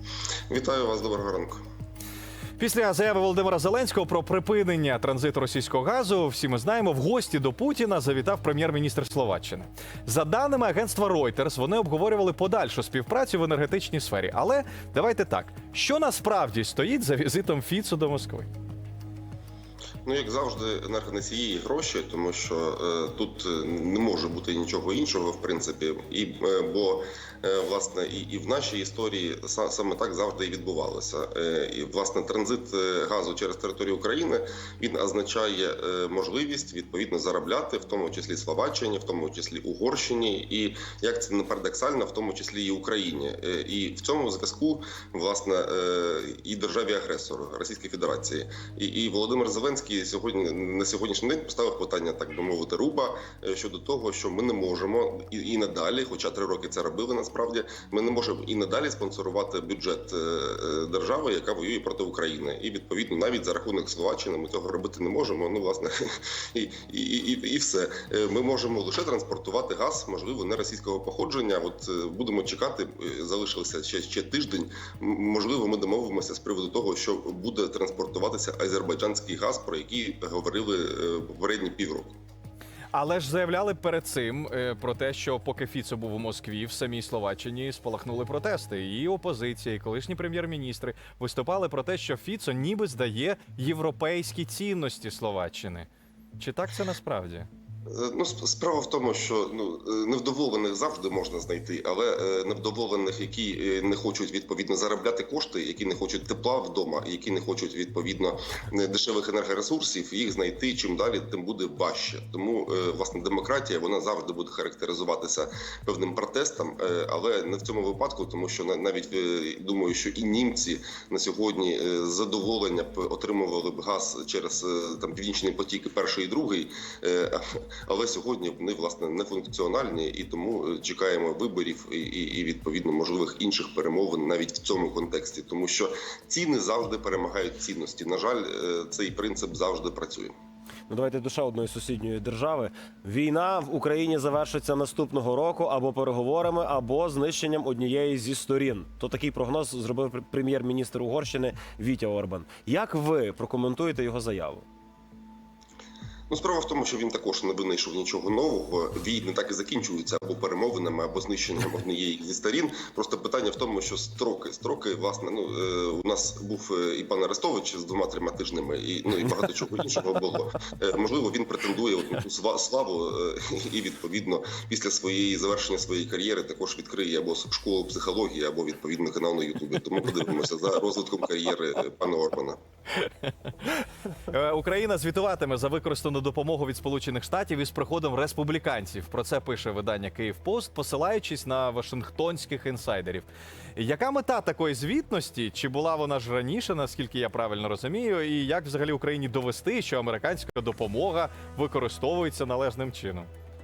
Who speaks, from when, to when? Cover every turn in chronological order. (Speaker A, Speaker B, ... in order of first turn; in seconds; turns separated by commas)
Speaker A: 0.5-1.6, Speaker B: 2.6-18.5, Speaker A: 20.1-82.2, Speaker B: 82.9-97.5, Speaker A: 97.9-140.3, Speaker C: 140.9-154.7, Speaker A: 156.3-182.6, Speaker B: 184.3-203.3